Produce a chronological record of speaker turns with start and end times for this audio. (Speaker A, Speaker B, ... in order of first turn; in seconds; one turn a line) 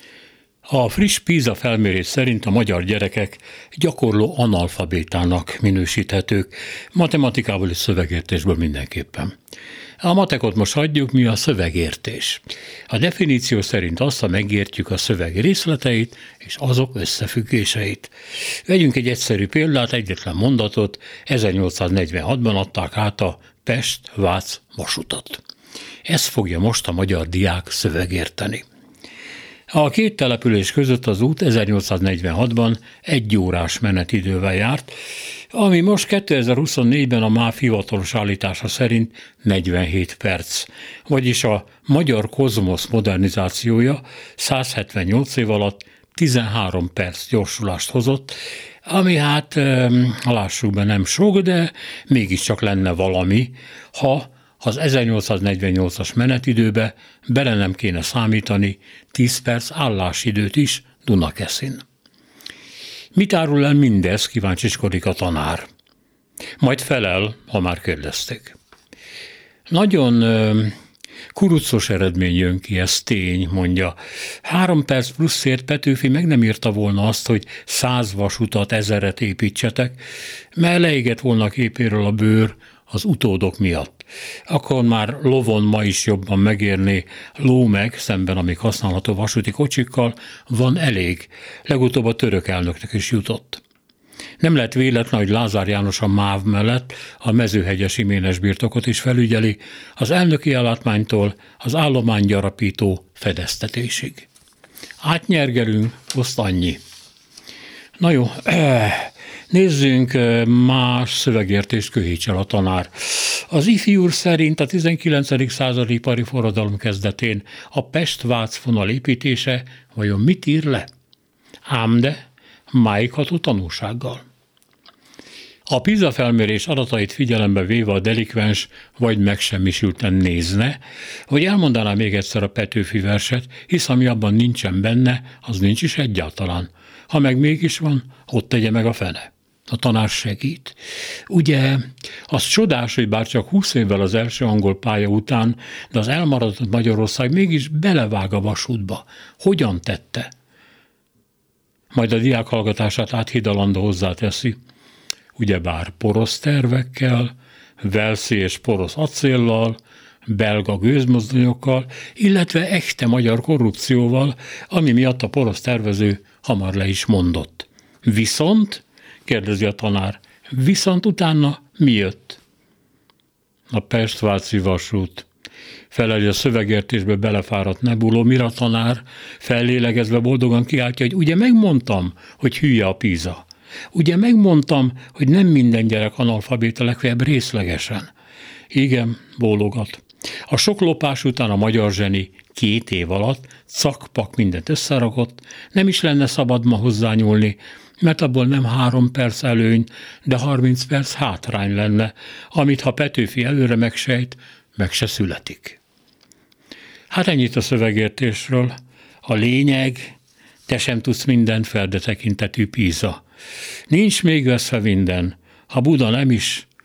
Speaker A: 0.7-9.3
Speaker A: 10.0-18.1
Speaker A: 18.6-25.4
Speaker A: 26.1-28.6
Speaker A: 29.7-34.9
Speaker A: 35.5-61.8
Speaker A: 63.1-65.7
Speaker A: 66.6-68.5
Speaker A: 69.7-70.7
Speaker A: 71.3-80.0
Speaker A: 80.5-93.6
Speaker A: 94.4-104.3
Speaker A: 105.0-106.8
Speaker A: 108.0-120.9
Speaker A: 121.7-122.2
Speaker A: 122.7-124.2
Speaker A: 125.7-140.8
Speaker A: 141.3-150.3
Speaker A: 151.9-154.6
Speaker A: 155.3-172.4
Speaker A: 173.7-175.2
Speaker A: 175.9-188.1
Speaker A: 188.7-205.8
Speaker A: 207.1-210.1
Speaker A: 210.7-213.2
Speaker A: 213.9-216.7